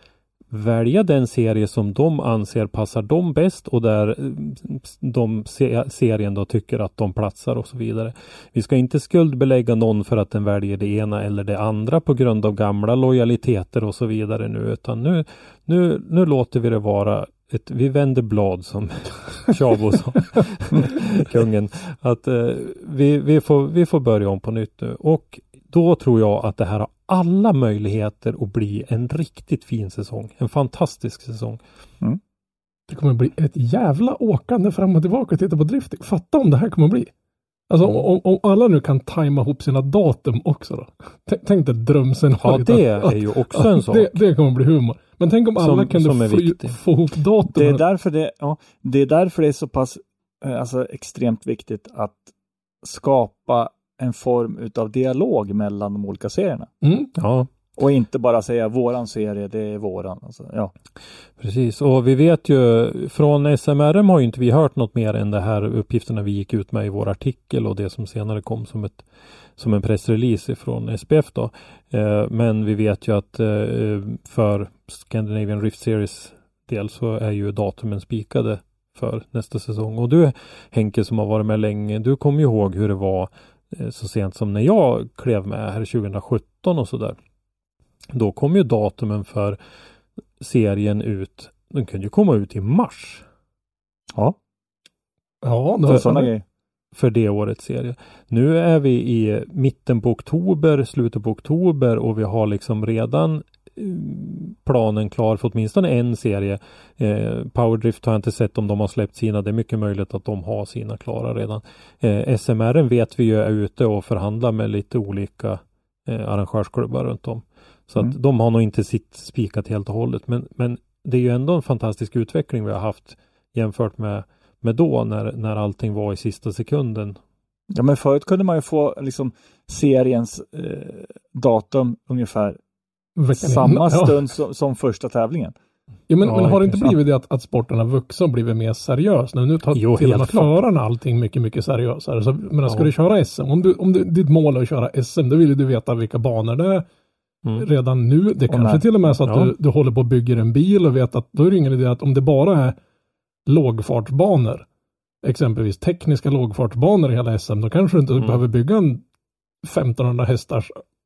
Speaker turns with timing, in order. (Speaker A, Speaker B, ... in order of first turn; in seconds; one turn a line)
Speaker A: 0.5-31.6
Speaker B: 32.9-37.1
Speaker B: 37.7-47.8
Speaker A: 42.4-44.1
Speaker A: 45.6-46.8
Speaker C: 47.5-52.3
Speaker C: 52.8-56.7
Speaker B: 56.8-57.1
Speaker A: 57.2-57.5
Speaker C: 57.8-60.7
Speaker A: 61.4-69.0
Speaker A: 69.6-87.2
Speaker A: 88.1-89.6
Speaker A: 90.4-93.2
Speaker B: 95.4-96.3
Speaker C: 95.9-96.4
Speaker A: 96.9-127.2
Speaker C: 127.7-132.6
Speaker B: 133.2-134.2
Speaker C: 133.3-135.5
Speaker B: 136.1-146.9
Speaker A: 136.2-136.9
Speaker A: 139.7-140.6
Speaker B: 147.6-152.8
Speaker C: 148.5-148.9
Speaker A: 149.2-149.5
Speaker B: 153.5-154.7
Speaker B: 155.2-159.0
Speaker B: 159.6-160.8